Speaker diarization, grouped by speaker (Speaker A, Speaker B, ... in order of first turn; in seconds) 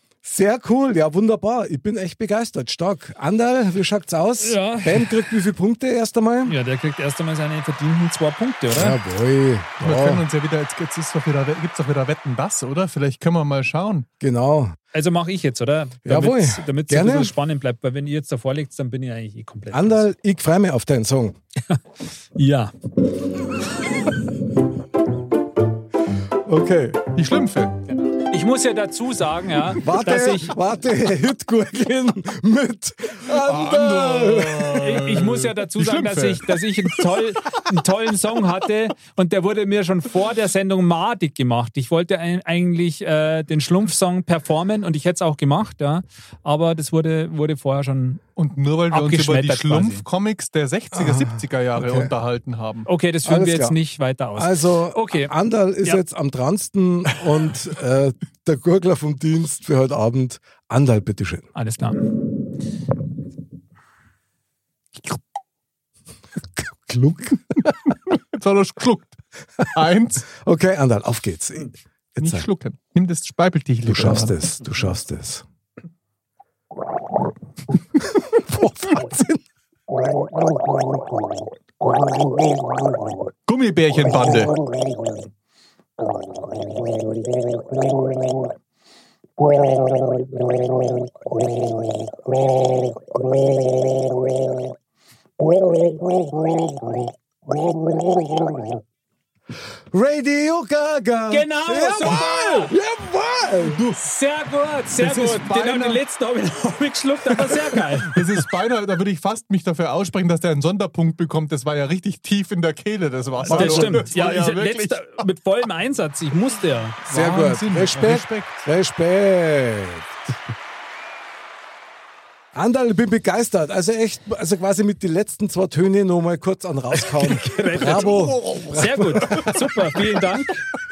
Speaker A: 0.2-6.6, 8.7-10.2, 14.2-14.8, 16.0-17.4, 19.7-21.4, 26.5-27.0, 29.8-35.0, 50.9-52.1, 53.2-53.8, 54.4-61.5, 66.6-67.8, 70.3-72.5, 73.9-75.5, 78.0-79.4, 95.6-96.8, 97.7-98.6, 99.9-103.8, 113.5-114.1, 117.1-120.3, 122.5-129.9
Speaker B: 4.4-5.2, 6.5-9.0, 14.9-20.1, 22.4-22.7, 27.9-30.6, 34.7-48.2, 48.9-50.0, 52.9-55.3, 61.5-62.1, 101.3-102.7, 103.7-108.2, 113.5-117.0, 127.0-130.7
Speaker C: 9.8-14.1, 27.1-27.8, 33.3-36.9, 48.4-52.9, 68.1-70.3, 72.2-74.4, 83.5-84.6, 105.0-106.0, 108.0-115.2, 117.0-118.7, 127.8-128.6